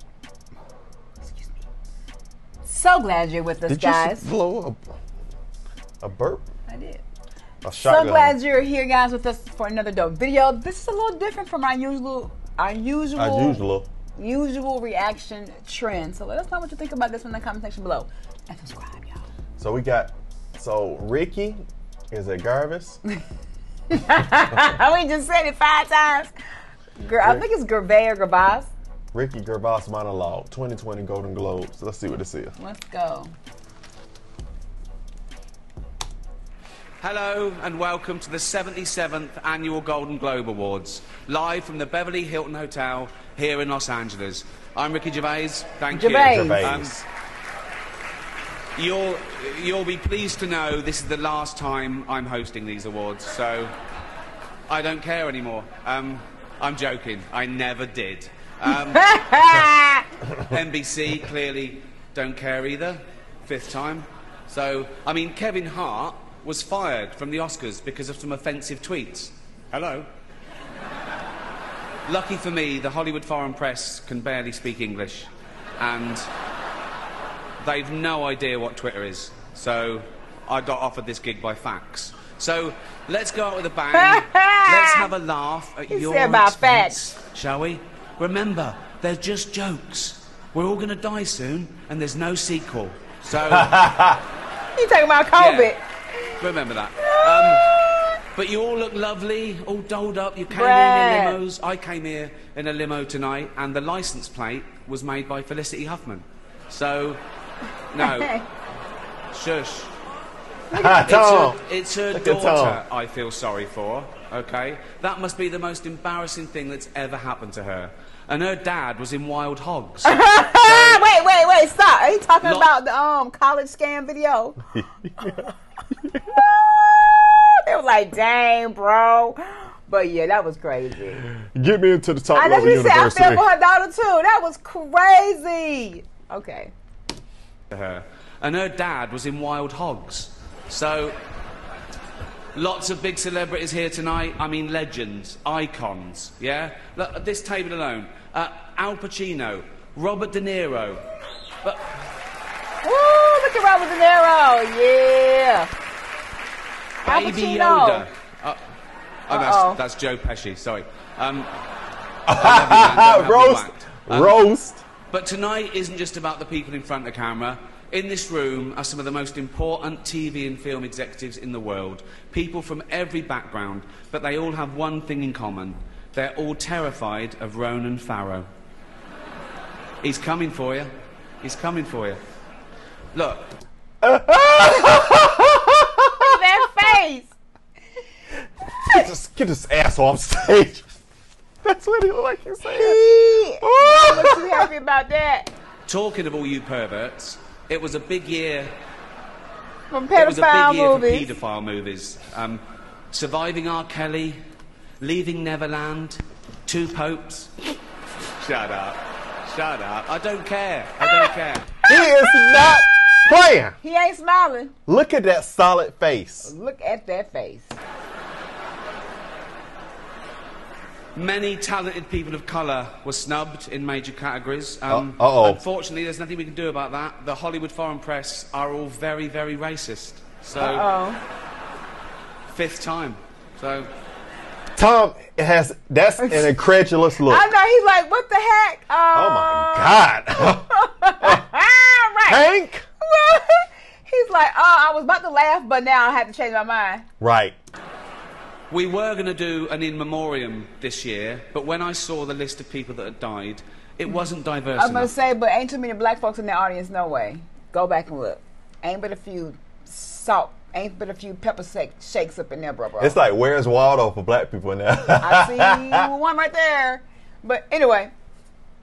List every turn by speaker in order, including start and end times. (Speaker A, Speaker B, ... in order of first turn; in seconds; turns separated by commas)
Speaker A: 1.2-1.5, Speaker A: 2.6-4.3, Speaker B: 3.7-4.9, Speaker B: 6.0-6.5, Speaker A: 6.7-7.0, Speaker B: 7.6-8.4, Speaker A: 7.8-13.6, Speaker B: 13.2-13.9, Speaker A: 14.1-19.2, Speaker B: 19.6-23.0, Speaker A: 23.9-26.3, Speaker A: 27.0-28.7, Speaker B: 29.1-32.5, Speaker A: 32.6-33.3, Speaker C: 37.0-47.0, Speaker A: 45.9-46.6, Speaker B: 46.3-47.0, Speaker C: 48.8-53.7, Speaker C: 54.7-59.2, Speaker A: 58.9-60.1, Speaker B: 60.2-60.6, Speaker C: 60.5-70.1, Speaker C: 72.1-76.3, Speaker C: 77.6-93.8, Speaker A: 83.9-85.0, Speaker A: 85.9-87.0, Speaker B: 93.5-94.2, Speaker A: 94.8-95.8, Speaker C: 95.3-95.8, Speaker C: 96.4-97.7, Speaker A: 97.0-98.2, Speaker C: 98.3-107.2, Speaker A: 100.5-101.4, Speaker C: 107.9-108.3, Speaker A: 108.0-108.5, Speaker C: 109.3-109.9, Speaker B: 110.7-111.6, Speaker C: 110.9-121.0, Speaker B: 112.1-112.8, Speaker A: 120.0-124.6, Speaker C: 122.4-122.7, Speaker B: 124.7-126.2, Speaker A: 126.2-131.2, Speaker B: 131.2-133.4, Speaker A: 132.3-136.7, Speaker C: 137.7-141.2, Speaker C: 142.6-151.0, Speaker A: 152.8-155.7, Speaker A: 157.0-158.1, Speaker C: 157.1-158.6, Speaker C: 159.3-161.5, Speaker A: 159.3-159.8, Speaker B: 162.3-164.8, Speaker C: 162.3-164.4, Speaker C: 165.1-178.5, Speaker C: 180.0-180.9, Speaker C: 181.4-182.2, Speaker C: 183.1-183.6, Speaker B: 184.0-186.2, Speaker A: 186.2-187.3, Speaker B: 188.8-190.9, Speaker B: 191.6-194.7, Speaker A: 192.7-195.5, Speaker C: 195.9-198.7, Speaker A: 199.9-201.3, Speaker C: 200.1-204.4, Speaker C: 205.0-207.5, Speaker C: 208.4-211.8, Speaker A: 211.0-211.3, Speaker A: 211.8-212.6, Speaker B: 211.9-213.8, Speaker A: 213.8-214.8, Speaker B: 214.9-216.5, Speaker A: 216.4-217.8, Speaker C: 221.1-230.9, Speaker B: 224.9-225.6, Speaker A: 230.6-231.2, Speaker C: 232.5-233.9, Speaker B: 234.8-237.5, Speaker A: 236.2-236.5, Speaker A: 237.3-242.4, Speaker B: 239.1-240.7, Speaker B: 241.2-241.5, Speaker B: 242.3-242.8, Speaker A: 243.0-247.1, Speaker B: 247.2-247.6, Speaker C: 248.7-255.1, Speaker A: 254.8-263.2, Speaker B: 263.0-266.1, Speaker A: 265.2-268.1